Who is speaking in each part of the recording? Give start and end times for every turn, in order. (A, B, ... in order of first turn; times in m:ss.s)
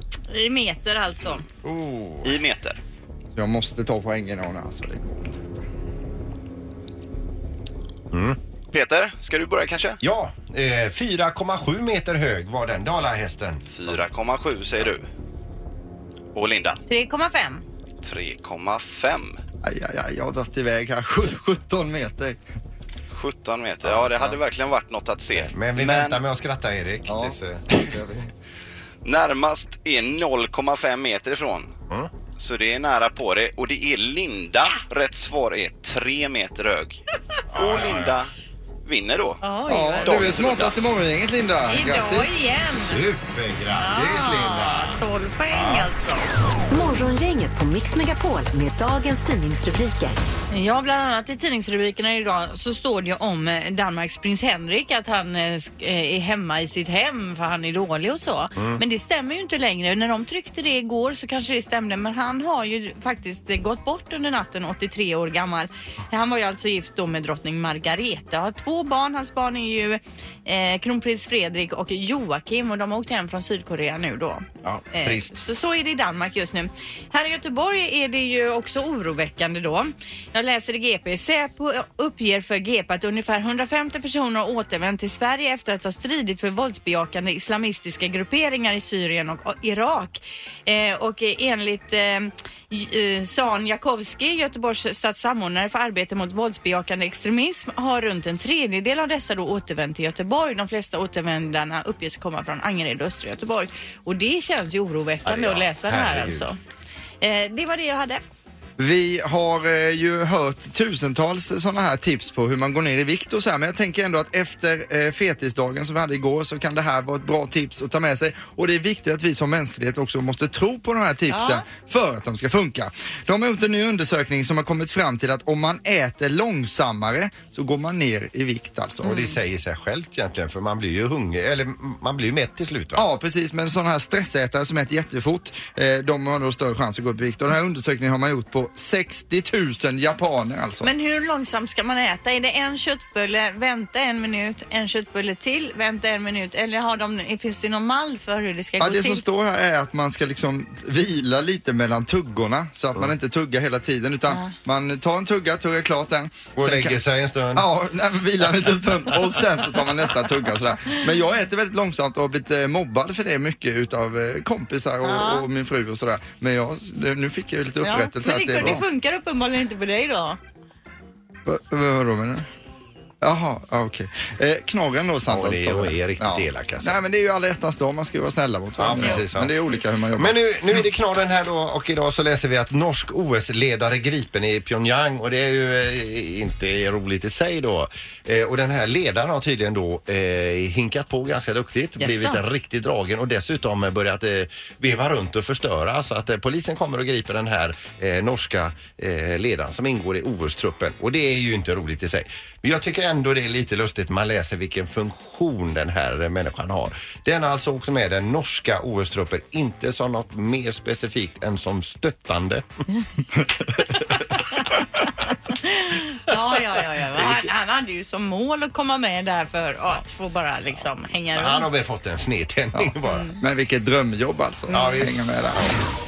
0:00.3-0:01.4 A
0:01.6-0:02.3 B
0:02.2-0:02.8 C
0:03.3-0:05.4 D
0:08.1-0:08.4 B
0:08.7-0:10.0 C
0:10.0-0:13.7 B
0:13.7-0:15.0 C
0:16.3-0:16.8 C
0:16.9-0:17.6 A
0:18.0-0:19.4 C
0:19.6-0:22.4 D
0:23.1-0:26.2 C
0:25.3-0:27.6 B
0:27.1-0:28.3 D
0:29.0-0:31.7 C
0:32.4-0:37.0 C
0:37.5-0:38.2 B
0:37.5-0:38.3 C
0:38.8-0:39.4 C
0:39.4-0:40.2 A
0:39.7-0:42.4 D
0:40.0-0:40.8 C
0:41.7-0:43.0 A
0:42.8-0:45.9 B
0:43.8-0:46.2 A
0:46.7-0:50.2 E
0:50.5-1:46.6 A
1:14.6-1:15.4 B
1:45.2-1:46.5 B
1:47.2-1:48.2 A
1:48.8-2:09.2 D
2:01.3-2:01.6 A
2:09.0-2:13.0 B
2:13.0-2:20.9 D
2:20.8-2:29.2 A
2:28.8-2:37.0 D
2:34.3-2:34.5 A
2:36.5-2:37.7 B
2:37.6-2:48.8 D
2:45.0-2:45.4 A
2:47.8-2:50.4 A
2:51.4-2:52.5 D
2:53.2-3:00.8 D
2:55.3-2:57.0 B
2:58.8-2:59.6 B
3:00.1-3:32.6 B
3:12.0-3:12.4 A
3:35.5-3:41.7 A
3:41.3-3:43.3 B
3:42.8-3:45.6 D
3:43.0-3:43.4 A
3:44.7-3:45.0 A
3:44.7-3:45.7 B